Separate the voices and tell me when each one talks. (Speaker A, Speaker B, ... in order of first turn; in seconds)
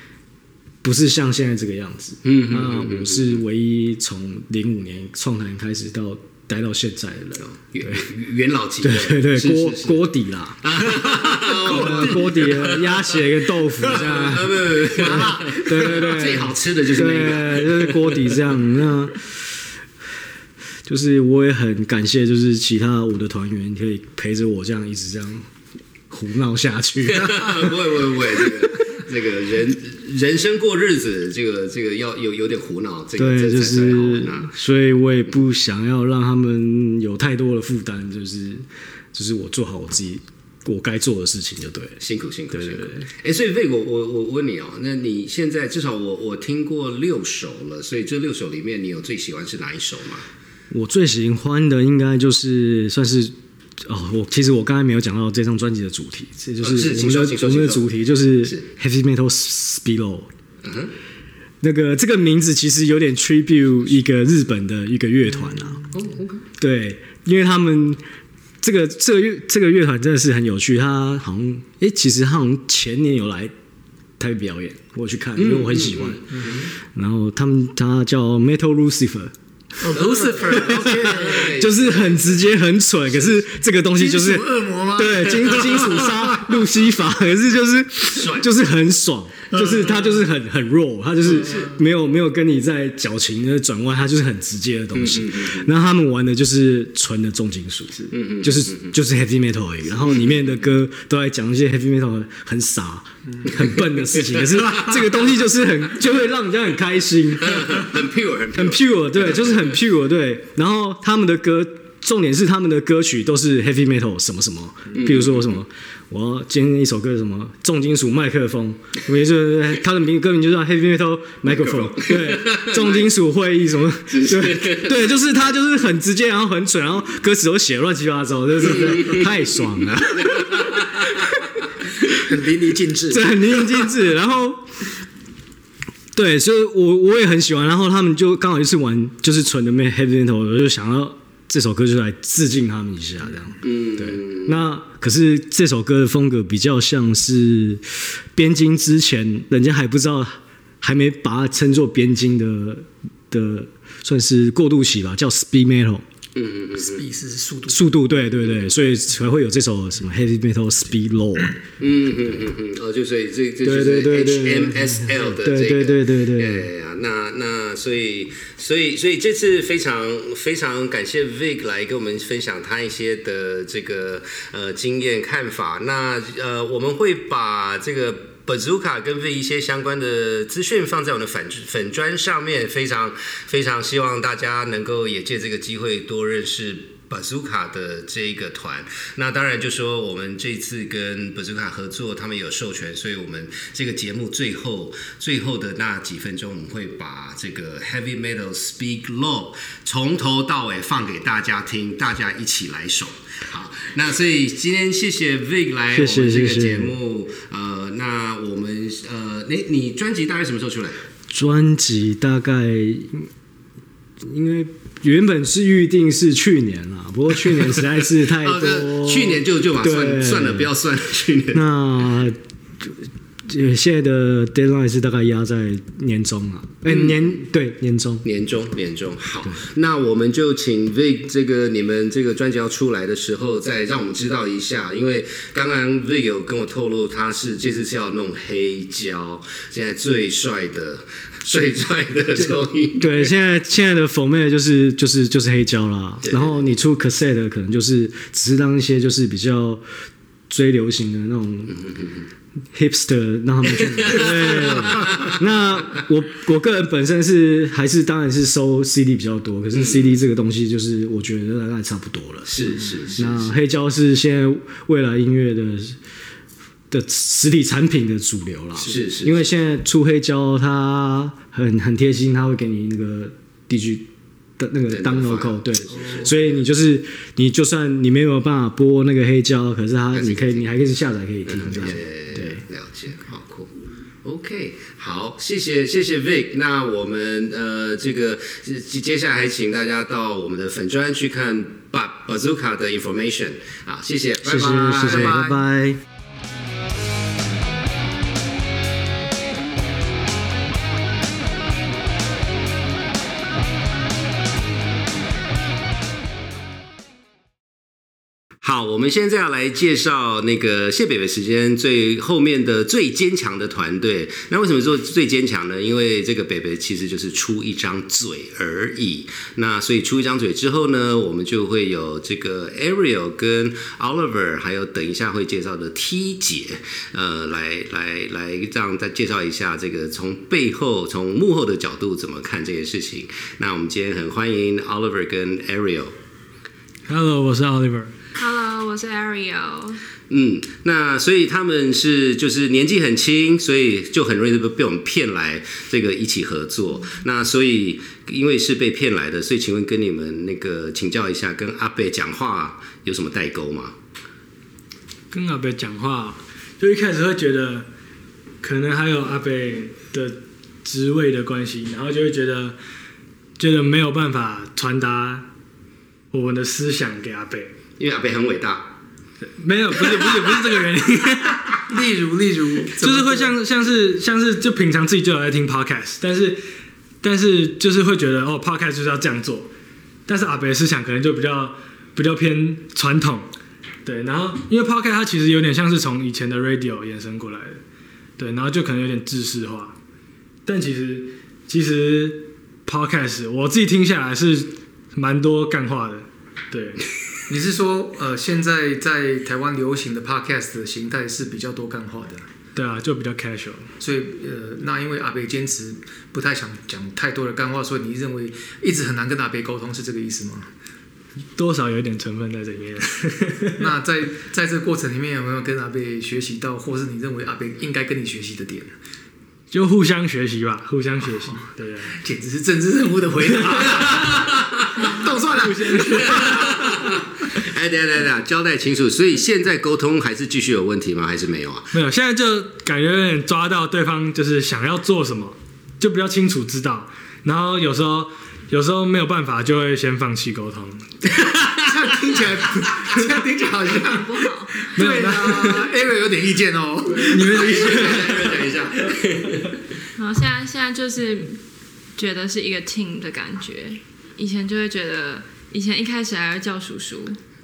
Speaker A: 0.8-8.1, 8.8-19.5, 20.9-25.5, 26.1-27.4, 33.2-42.0, 42.5-43.1, 50.7-60.3, 61.6-65.8, 66.6-68.0, 68.6-73.5, 74.2-76.2, 76.8-79.3, 80.5-107.8, 108.5-130.5, 133.1-134.8, 136.2-156.1, 157.7-161.6, 163.6-166.7, 205.9-207.0, 211.3-213.3, 214.2-220.7, 221.5-228.2, 243.0-249.8, 250.5-251.8, 252.7-266.0, 266.9-282.6, 294.4-296.0
Speaker B: 2.2-3.4, 7.4-13.2, 13.8-18.4, 27.1-34.5, 42.0-50.2, 56.6-58.6, 60.6-60.9, 65.9-66.4, 75.4-76.7, 79.9-82.5, 83.1-83.4, 88.1-88.5, 94.9-95.7, 98.1-98.9, 100.0-100.5, 104.2-104.9, 107.4-109.7, 114.9-115.5, 121.5-123.1, 124.1-125.1, 128.8-129.2, 130.2-131.1, 143.6-144.6, 156.3-157.0, 161.8-211.0, 218.4-221.6, 226.9-227.2, 228.2-243.3, 254.0-255.3, 259.7-260.1, 262.5-263.6, 268.8-269.4, 274.9-276.5, 280.1-280.7, 281.5-283.7, 284.2-295.4, 308.6-336.1, 340.3-353.9, 368.0-369.0, 370.0-370.6, 426.3-431.9, 447.5-449.8
Speaker C: 14.9-15.7, 76.3-76.7, 79.8-81.5, 84.0-86.1, 89.5-90.0, 132.1-133.6, 156.8-158.0, 294.9-295.6, 371.9-373.5, 397.5-402.4, 404.0-410.7, 413.8-418.9, 421.5-427.1, 441.8-448.0
Speaker D: 337.1-338.1, 355.3-357.9, 358.6-362.8, 363.6-365.5, 366.3-367.7, 369.6-371.8, 373.0-376.6, 377.2-379.7, 380.3-383.5, 384.1-387.8, 388.4-390.0, 390.7-397.0, 402.8-403.9, 411.6-413.9, 419.7-422.2, 425.6-426.6, 431.9-441.1, 445.0-445.9, 447.1-448.6
Speaker E: 338.4-340.0, 444.1-445.2, 450.2-451.6, 452.1-457.4